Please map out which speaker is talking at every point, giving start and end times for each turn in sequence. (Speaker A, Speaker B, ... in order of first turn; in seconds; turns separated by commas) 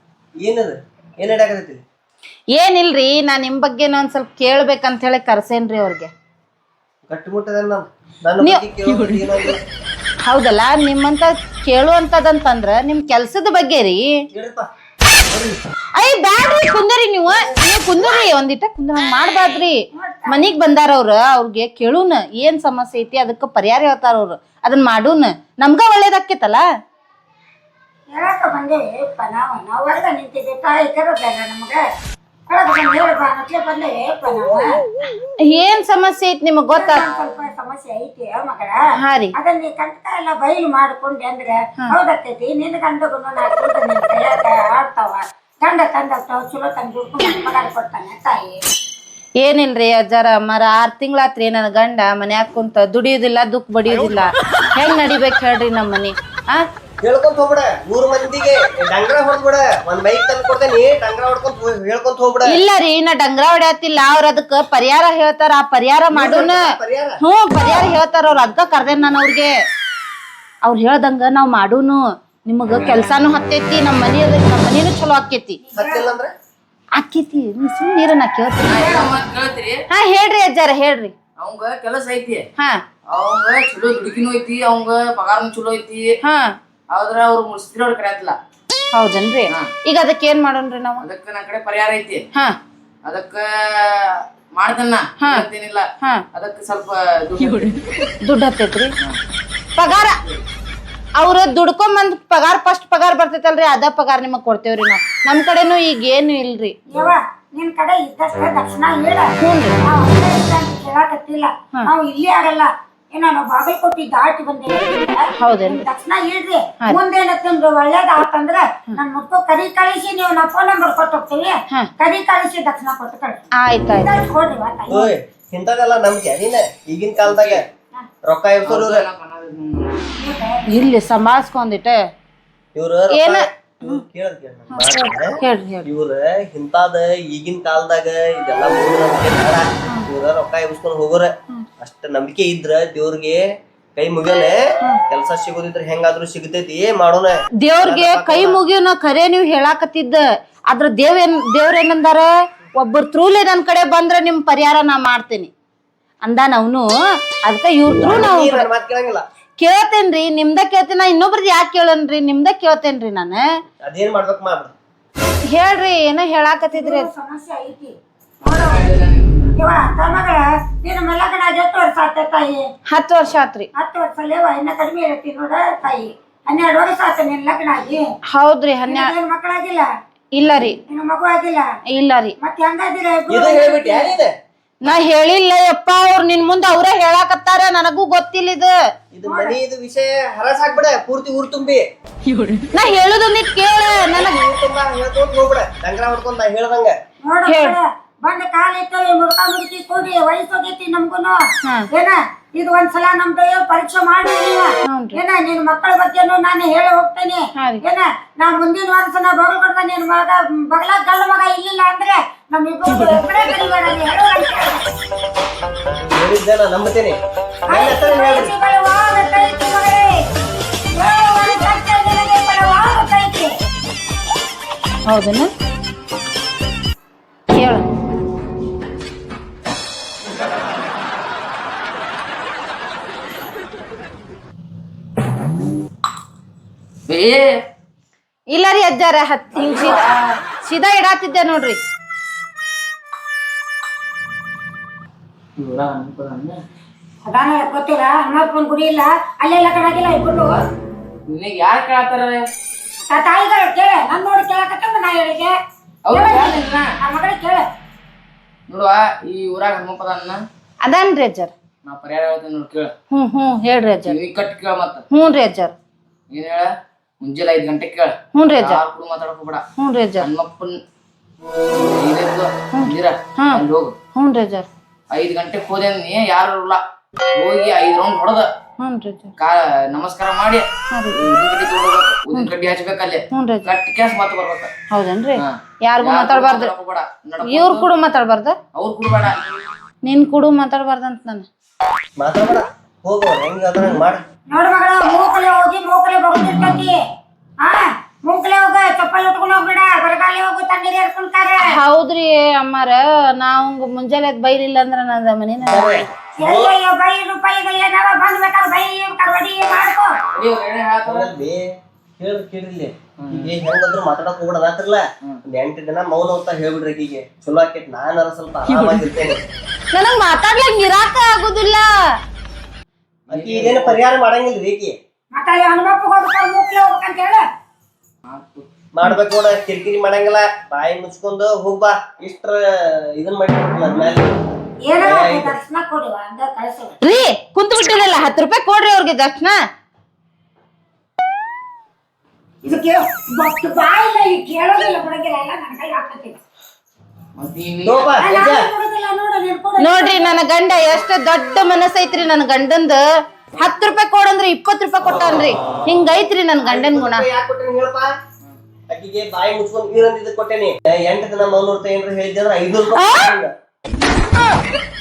Speaker A: 0.4-1.8, Speaker B: 2.5-6.1, Speaker A: 7.1-9.6, Speaker B: 8.4-9.2, Speaker B: 10.2-14.1, Speaker A: 14.3-14.7, Speaker A: 15.3-15.6, Speaker B: 16.0-19.8, Speaker C: 19.9-20.4, Speaker B: 20.3-26.6, Speaker C: 28.1-31.8, Speaker C: 32.5-34.8, Speaker B: 35.4-37.0, Speaker C: 36.7-38.8, Speaker B: 39.0-39.3, Speaker C: 39.4-48.6, Speaker B: 49.4-56.6, Speaker A: 53.9-54.2, Speaker A: 57.0-62.5, Speaker B: 62.5-69.5, Speaker A: 66.1-67.2, Speaker B: 70.6-75.6, Speaker D: 72.8-73.0, Speaker C: 75.7-76.2, Speaker A: 75.7-76.3, Speaker B: 77.0-79.0, Speaker D: 78.7-79.8, Speaker B: 79.9-81.1, Speaker D: 81.4-82.5, Speaker D: 83.1-86.1, Speaker B: 86.2-86.5, Speaker D: 86.9-88.3, Speaker B: 88.9-91.0, Speaker D: 91.0-92.2, Speaker D: 93.0-97.8, Speaker B: 95.2-95.5, Speaker B: 98.2-98.9, Speaker B: 99.8-100.2, Speaker B: 101.2-106.7, Speaker C: 106.9-123.4, Speaker B: 109.4-109.8, Speaker B: 115.3-115.8, Speaker B: 123.6-124.2, Speaker C: 124.0-125.1, Speaker A: 124.9-127.7, Speaker D: 127.2-127.6, Speaker A: 128.2-129.1, Speaker D: 128.6-130.0, Speaker C: 130.2-130.8, Speaker B: 130.7-132.0, Speaker A: 132.7-143.4, Speaker B: 133.1-134.0, Speaker B: 134.7-135.9, Speaker A: 143.9-144.5, Speaker A: 145.1-148.6, Speaker B: 147.6-152.2, Speaker B: 152.8-155.5, Speaker B: 156.2-156.8, Speaker B: 157.5-158.7, Speaker A: 158.0-159.2, Speaker B: 159.6-163.4, Speaker A: 163.8-164.7, Speaker B: 165.5-167.1, Speaker C: 166.7-168.8, Speaker D: 168.4-169.5, Speaker C: 169.6-172.6, Speaker B: 172.9-173.7, Speaker C: 173.7-178.1, Speaker B: 178.3-179.1, Speaker C: 178.9-179.9, Speaker B: 180.3-180.8, Speaker C: 180.9-181.7, Speaker B: 181.9-182.3, Speaker C: 182.4-184.2, Speaker A: 183.3-184.3, Speaker B: 184.8-188.7, Speaker A: 189.1-191.8, Speaker C: 189.2-189.6, Speaker B: 192.7-194.3, Speaker A: 194.1-197.0, Speaker C: 197.2-201.4, Speaker B: 197.5-197.8, Speaker C: 201.9-214.8, Speaker B: 204.8-205.2, Speaker B: 207.6-207.8, Speaker A: 216.0-217.2, Speaker C: 217.7-220.1, Speaker A: 217.7-218.5, Speaker C: 220.9-223.5, Speaker B: 225.1-225.5, Speaker B: 227.5-227.8, Speaker D: 237.1-237.5, Speaker B: 238.5-241.8, Speaker D: 239.5-240.2, Speaker D: 245.6-246.6, Speaker C: 247.2-250.6, Speaker D: 251.3-252.4, Speaker C: 253.1-255.5, Speaker D: 256.1-256.9, Speaker C: 256.1-257.6, Speaker D: 258.7-260.4, Speaker B: 260.8-261.5, Speaker D: 261.8-262.9, Speaker B: 263.1-264.2, Speaker D: 264.1-265.0, Speaker B: 265.1-265.7, Speaker D: 266.3-266.7, Speaker D: 267.2-269.6, Speaker B: 268.3-268.8, Speaker B: 269.8-270.3, Speaker D: 270.2-270.7, Speaker D: 271.8-273.9, Speaker B: 272.7-273.6, Speaker B: 274.1-274.7, Speaker D: 275.1-276.8, Speaker D: 277.4-278.5, Speaker B: 278.8-279.3, Speaker D: 279.4-284.7, Speaker B: 280.9-281.2, Speaker B: 283.3-283.7, Speaker B: 284.9-286.7, Speaker D: 285.4-287.9, Speaker B: 287.4-288.6, Speaker D: 288.7-289.6, Speaker B: 290.0-291.5, Speaker A: 292.2-294.2, Speaker C: 294.5-297.0, Speaker D: 296.5-296.8, Speaker C: 297.6-301.8, Speaker B: 301.6-306.0, Speaker A: 305.6-306.8, Speaker C: 306.4-310.1, Speaker D: 310.3-311.4, Speaker A: 311.0-311.6, Speaker A: 312.2-319.4, Speaker D: 313.2-313.6, Speaker D: 318.7-319.0, Speaker B: 319.9-321.9, Speaker D: 323.3-324.1, Speaker A: 323.3-324.9, Speaker C: 325.3-327.4, Speaker D: 328.2-328.7, Speaker A: 328.9-332.6, Speaker A: 333.2-335.6, Speaker C: 334.9-337.0, Speaker B: 337.0-339.6, Speaker C: 342.6-346.4, Speaker D: 347.4-348.1, Speaker A: 347.8-348.6, Speaker C: 348.2-350.4, Speaker B: 349.8-353.0, Speaker B: 353.6-357.3, Speaker A: 356.6-358.1, Speaker A: 358.9-363.5, Speaker B: 362.9-363.4